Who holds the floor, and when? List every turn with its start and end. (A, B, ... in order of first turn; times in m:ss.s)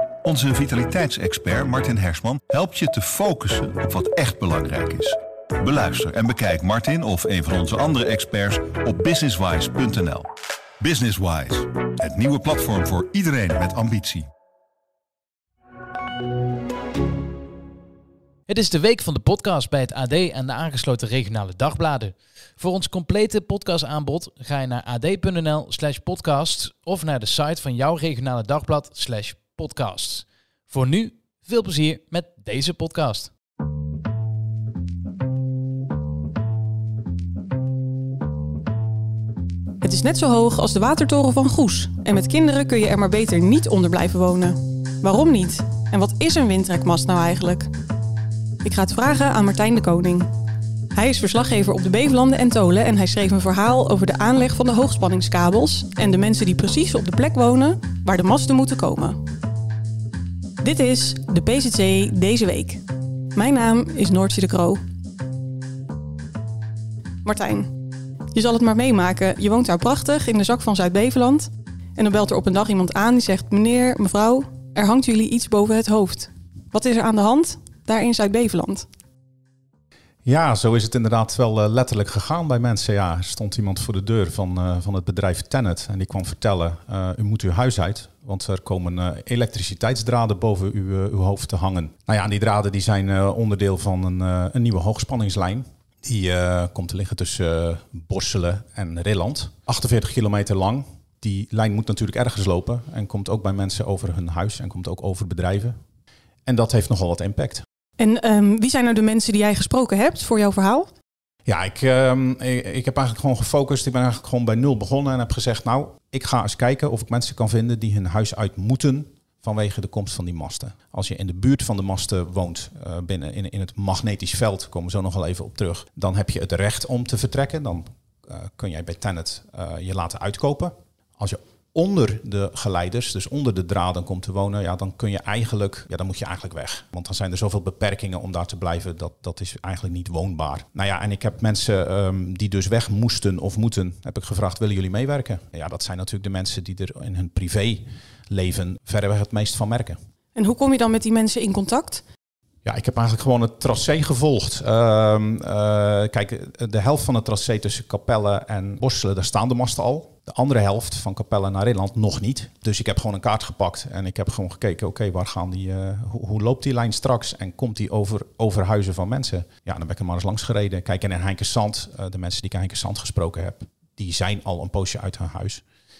0:00.2-0:10.3 A
0:10.8-0:14.3 A
0:18.5-0:33.3 B
0:39.8-0:47.7 C
0:48.6-0:50.3 C
0:50.9-0:59.2 C
1:00.6-1:02.8 C
1:03.3-1:04.8 C
1:07.2-1:07.7 C
1:08.3-1:18.8 C
1:20.2-1:45.7 D
1:46.4-1:47.6 D
1:48.0-1:50.9 C
1:51.5-2:30.0 D
2:30.3-2:32.0 C
2:32.6-2:55.6 D